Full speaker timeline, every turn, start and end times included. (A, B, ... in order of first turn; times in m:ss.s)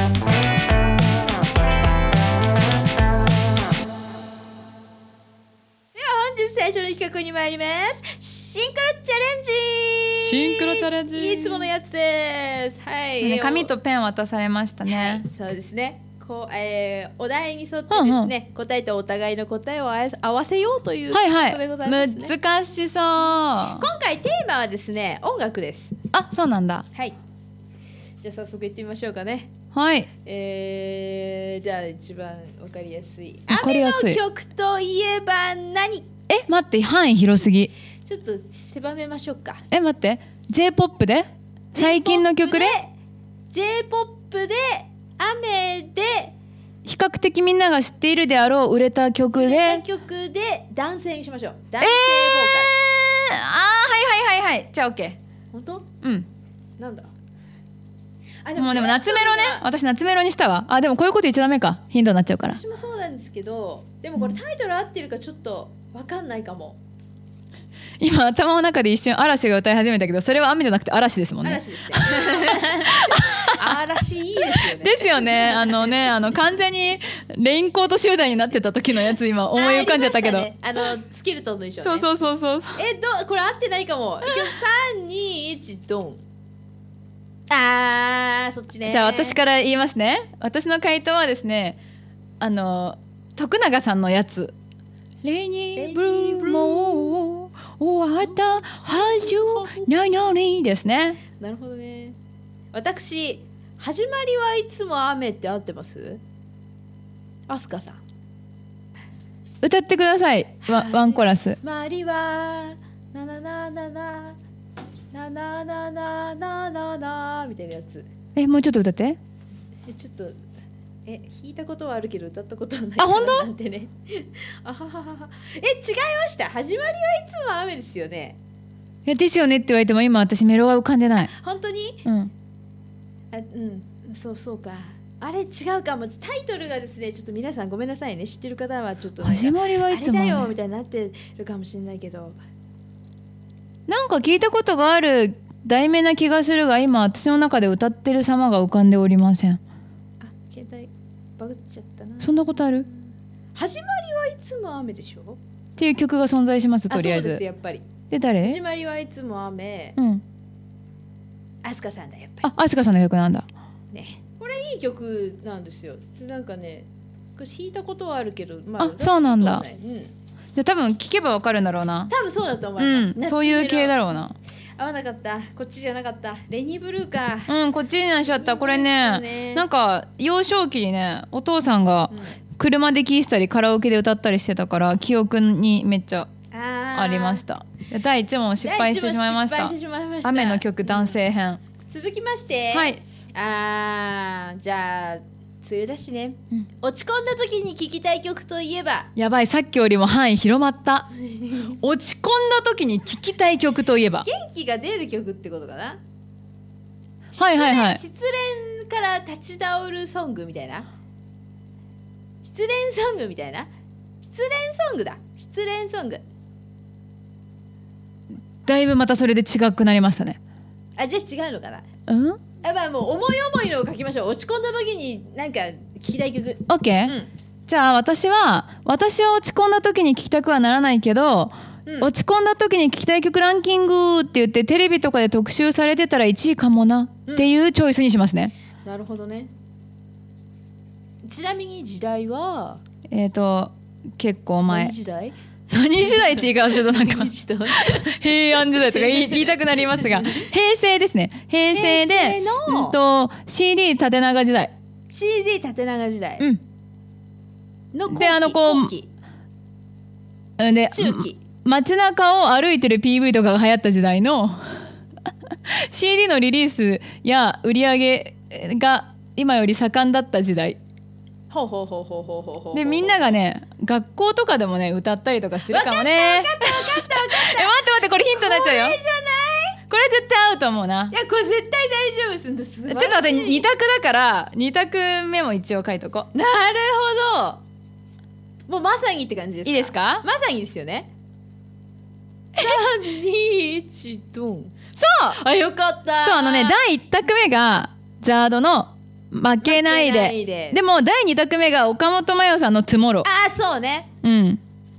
0:05.9-0:13.7 A
0:10.1-0:11.7 B
0:13.2-0:15.2 B
0:14.8-0:22.3 A
0:17.9-0:18.3 B
0:21.1-0:23.9 B
0:23.7-0:25.9 A
0:26.1-0:26.8 B
0:28.2-0:29.5 A
0:29.7-0:30.1 B
0:30.2-0:36.1 A
0:33.5-0:34.2 B
0:36.3-0:37.7 B
0:38.0-0:39.6 A
0:39.7-0:42.8 B
0:41.7-0:42.9 A
0:43.5-0:46.3 A
0:46.8-0:49.8 B
0:49.3-0:52.7 A
0:51.8-0:55.2 B
0:55.5-0:55.9 A
0:56.0-0:56.3 B
0:56.8-0:57.1 A
0:58.4-0:59.6 A
0:58.6-1:02.6 B
1:02.4-1:06.8 A
1:08.0-1:13.8 B
1:11.4-1:15.9 A
1:14.5-1:20.5 B
1:19.5-1:22.1 A
1:21.8-1:22.8 B
1:22.8-1:26.2 A
1:24.2-1:24.6 B
1:27.5-1:29.4 A
1:28.9-1:31.8 B
1:32.4-1:34.5 B
1:35.2-1:41.2 B
1:35.8-1:37.2 A
1:38.2-1:39.9 A
1:41.4-1:42.2 A
1:42.7-1:46.2 A
1:47.5-1:48.0 A
1:49.6-1:51.6 B
1:50.6-1:54.4 A
1:55.1-1:58.1 A
1:58.4-1:59.2 B
1:59.9-2:00.4 A
2:01.0-2:08.4 A
2:03.0-2:03.5 B
2:09.0-2:11.3 B
2:11.3-2:12.0 A
2:12.0-2:12.3 B
2:13.3-2:22.4 A
2:19.2-2:20.5 B
2:23.9-2:29.6 B
2:30.2-2:35.4 A
2:32.2-2:32.9 B
2:35.8-2:37.4 B
2:36.9-2:37.9 A
2:38.1-2:38.6 B
2:38.4-2:40.0 A
2:40.0-2:40.2 B
2:41.6-2:42.5 A
2:42.4-2:43.4 B
2:43.9-2:50.1 A
2:48.8-2:49.6 B
2:50.5-2:52.1 B
2:52.1-2:54.0 A
2:52.8-2:54.4 B
2:54.8-2:57.5 A
2:57.5-3:06.3 B
2:58.2-2:59.6 A
3:02.1-3:02.4 A
3:06.5-3:07.4 A
3:06.9-3:11.6 B
3:08.6-3:11.2 A
3:11.9-3:19.1 A
3:12.7-3:13.0 B
3:19.2-3:21.1 B
3:21.3-3:21.8 A
3:21.8-3:24.3 B
3:24.2-3:26.0 A
3:27.3-3:30.9 A
3:27.4-3:28.0 B
3:32.4-3:33.7 A
3:34.2-3:36.2 A
3:38.6-3:40.4 B
3:41.0-3:41.8 A
3:42.1-3:42.4 B
3:42.6-3:47.3 A
3:46.7-3:58.5 B
3:58.8-3:59.5 A
4:01.2-4:02.8 A
4:03.1-4:04.9 B
4:04.7-4:05.4 A
4:05.7-4:14.7 B
4:06.0-4:10.4 A
4:11.7-4:13.0 A
4:15.1-4:16.4 A
4:17.9-4:19.1 A
4:18.1-4:18.9 B
4:20.6-4:24.8 B
4:20.9-4:21.4 A
4:25.7-4:30.8 B
4:31.5-4:33.4 A
4:32.7-4:39.0 B
4:35.7-4:39.8 A
4:39.9-4:41.1 B
4:41.1-4:43.6 A
4:42.9-4:46.3 B
4:46.3-4:47.6 A
4:48.7-4:51.1 A
4:49.6-4:50.2 B
4:52.6-4:54.8 A
4:55.0-4:55.4 B
4:55.3-4:56.8 A
4:56.2-5:03.3 B
4:59.6-5:00.8 A
5:03.2-5:04.1 A
5:04.2-5:04.6 B